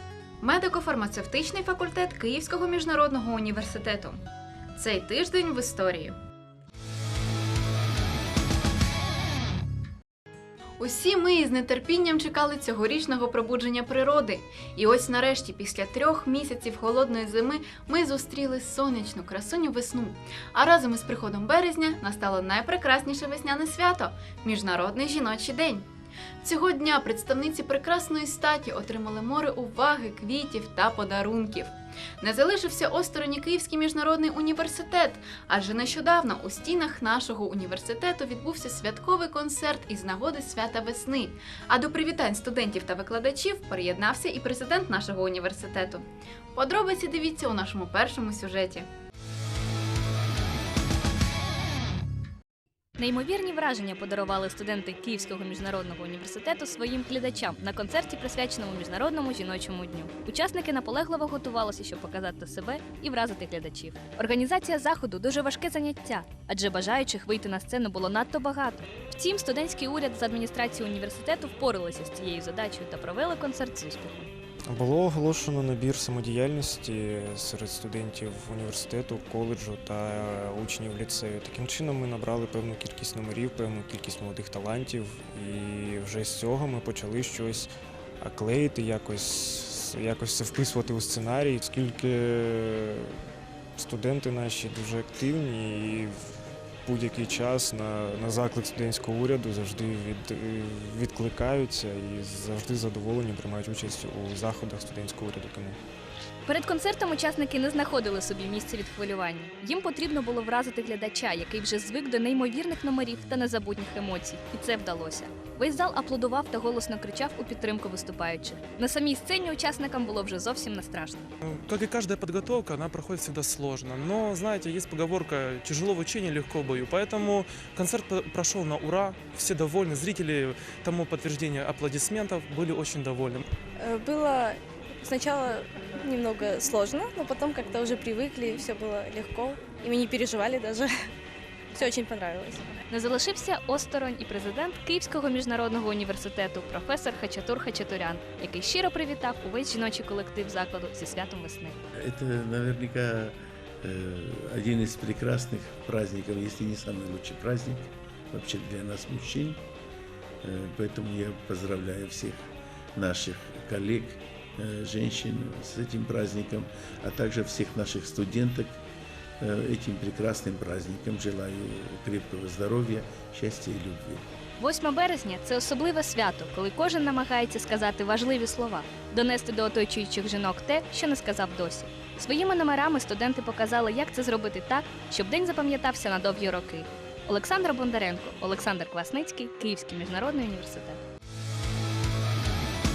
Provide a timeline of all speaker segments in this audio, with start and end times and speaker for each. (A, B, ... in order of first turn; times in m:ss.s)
0:00.4-0:04.2 A
0:04.8-0:06.2 A
0:10.8-0:25.9 A
0:26.4-0:48.9 A
0:53.0-1:14.3 B
1:14.7-1:27.7 C
1:28.2-1:33.2 C
1:33.8-1:36.2 C
1:36.9-1:45.8 C
1:46.5-2:01.3 B
2:01.6-2:13.4 D
2:13.8-2:21.1 E
2:21.7-2:22.8 E
2:22.9-2:31.8 B
2:32.1-2:33.3 F
2:33.9-2:37.8 F
2:38.3-2:39.6 F
2:40.5-2:42.3 F
2:43.0-2:48.7 F
2:49.4-2:54.2 F
2:54.6-3:11.0 B